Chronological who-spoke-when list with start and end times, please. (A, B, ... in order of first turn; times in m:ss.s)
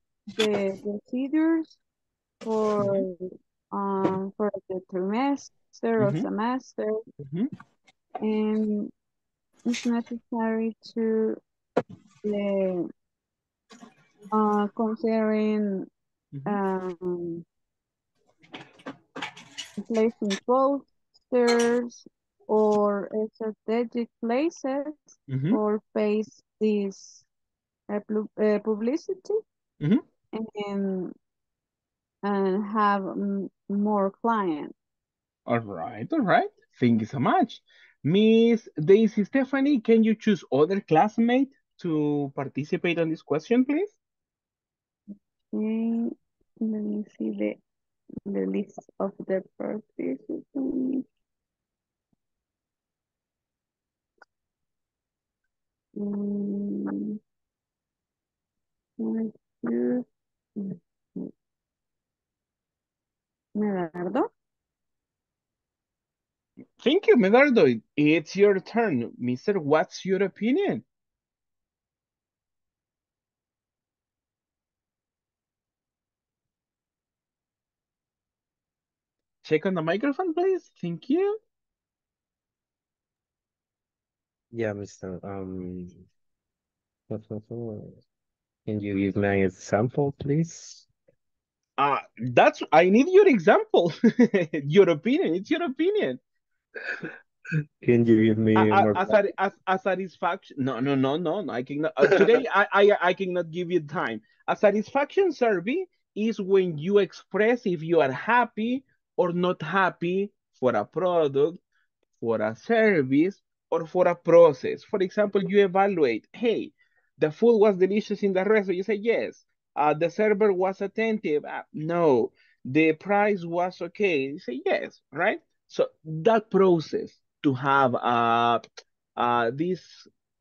0:00.3-0:01.8 A
0:02.4-0:03.2 A
0:02.8-0:03.0 B
0:03.7-0:07.0 A
0:06.0-0:06.3 B
0:07.2-0:07.5 B
0:08.2-0:08.9 A
0:09.6-0:11.4 A
0:12.2-0:12.9 A
0:14.3-0:15.9 A
0:16.3-0:16.6 B
0:16.4-0:17.4 A
0:19.8-0:25.0 A
0:25.3-0:25.6 B
0:25.5-0:27.2 A
0:27.9-0:29.4 A
0:30.3-0:31.1 A
0:32.2-0:34.7 A
0:35.5-0:44.0 B
0:45.5-0:47.6 A
0:48.2-0:51.0 A
0:55.9-0:57.2 A
0:59.0-1:00.0 A
1:00.6-1:01.3 A
1:03.5-1:04.3 A
1:06.8-1:10.8 B
1:19.4-1:21.4 B
1:24.5-1:26.0 C
1:27.1-1:28.0 C
1:28.6-1:30.9 C
1:31.8-1:36.2 B
1:37.8-1:39.2 C
1:38.5-1:51.6 B
1:42.0-1:42.3 C
1:52.2-2:08.6 B
2:09.2-2:10.1 B